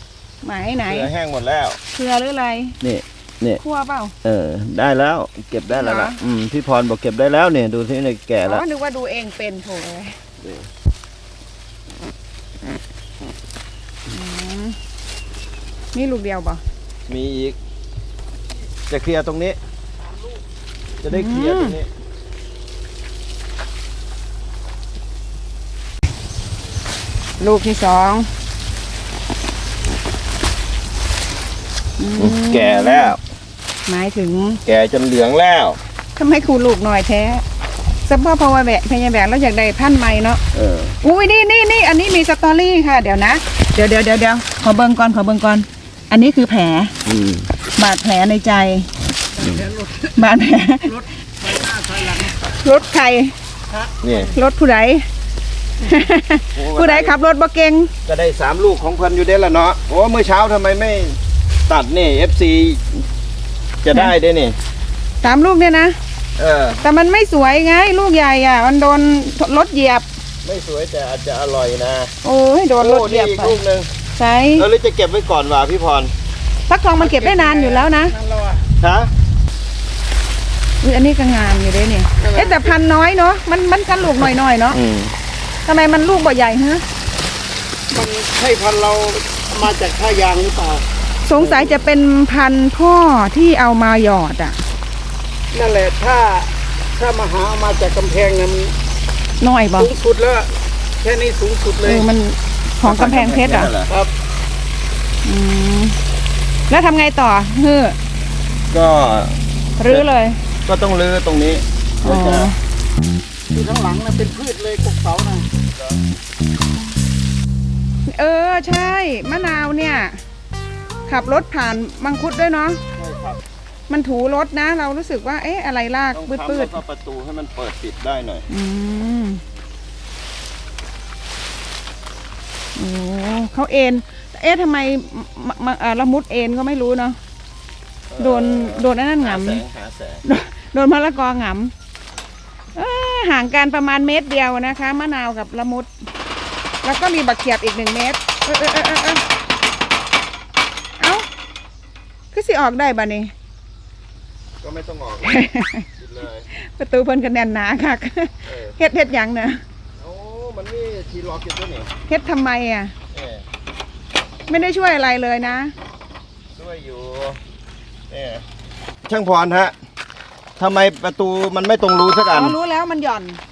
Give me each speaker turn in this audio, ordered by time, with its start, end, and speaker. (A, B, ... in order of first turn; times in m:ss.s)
0:00.4-0:01.1 A
0:00.8-0:01.8 B
0:01.9-0:02.8 A
0:02.8-0:03.6 B
0:03.6-0:04.1 A
0:04.2-0:08.6 B
0:05.7-0:06.2 A
0:08.4-0:10.1 A
0:10.4-0:10.7 B
0:14.1-0:14.8 A
0:15.9-0:16.6 A
0:17.1-0:17.6 B
0:18.9-0:19.6 B
0:21.0-0:21.9 B
0:21.1-0:21.8 A
0:27.4-0:28.3 A
0:32.0-0:33.2 A
0:32.2-0:33.2 B
0:33.9-0:34.6 A
0:34.6-0:35.8 B
0:36.2-0:37.4 A
0:38.0-0:40.4 A
0:40.5-0:41.0 B
0:41.0-0:46.9 A
0:47.0-0:47.5 B
0:47.8-0:48.9 A
0:49.4-0:50.1 C
0:50.2-0:51.0 A
0:50.9-0:52.4 C
0:52.4-0:53.3 A
0:53.7-0:54.2 C
0:54.0-0:54.3 B
0:54.3-0:55.1 A
0:55.8-0:57.9 A
0:56.5-0:57.2 B
0:58.0-1:03.0 B
1:03.8-1:04.6 B
1:05.2-1:05.9 A
1:06.4-1:06.8 B
1:06.8-1:10.0 A
1:10.4-1:12.1 B
1:12.2-1:13.6 A
1:12.8-1:13.9 B
1:14.1-1:14.6 A
1:14.6-1:16.1 B
1:16.7-1:18.1 A
1:17.0-1:18.6 C
1:18.8-1:19.1 B
1:20.8-1:24.8 A
1:22.2-1:22.7 C
1:24.7-1:25.1 B
1:25.6-1:26.8 A
1:27.9-1:30.8 C
1:31.2-1:34.6 A
1:35.5-1:38.7 C
1:39.4-1:39.9 A
1:39.8-1:42.0 C
1:41.8-1:43.7 A
1:42.8-1:43.9 B
1:45.2-1:46.0 A
1:46.7-1:48.0 A
1:48.7-1:50.1 B
1:49.8-1:50.4 A
1:50.6-1:52.5 B
1:52.0-1:52.6 A
1:53.5-1:55.5 C
1:55.7-1:56.0 B
1:58.1-2:00.2 A
2:01.1-2:02.8 A
2:02.9-2:03.4 B
2:03.9-2:06.8 A
2:06.1-2:08.4 B
2:08.5-2:09.4 A
2:12.8-2:17.2 A
2:18.1-2:20.2 B
2:18.2-2:19.6 A
2:20.2-2:21.7 A
2:22.7-2:25.9 A
2:26.8-2:29.2 A
2:31.0-2:31.2 A
2:32.3-2:33.3 A
2:34.6-2:36.5 B
2:35.2-2:35.8 A
2:36.5-2:39.6 A
2:38.5-2:38.7 B
2:40.0-2:41.9 B
2:42.1-2:42.9 A
2:43.1-2:43.4 B
2:44.5-2:45.7 A
2:46.6-2:47.4 B
2:48.1-2:48.4 B
2:49.0-2:49.7 B
2:50.6-2:52.6 B
2:52.3-2:53.4 A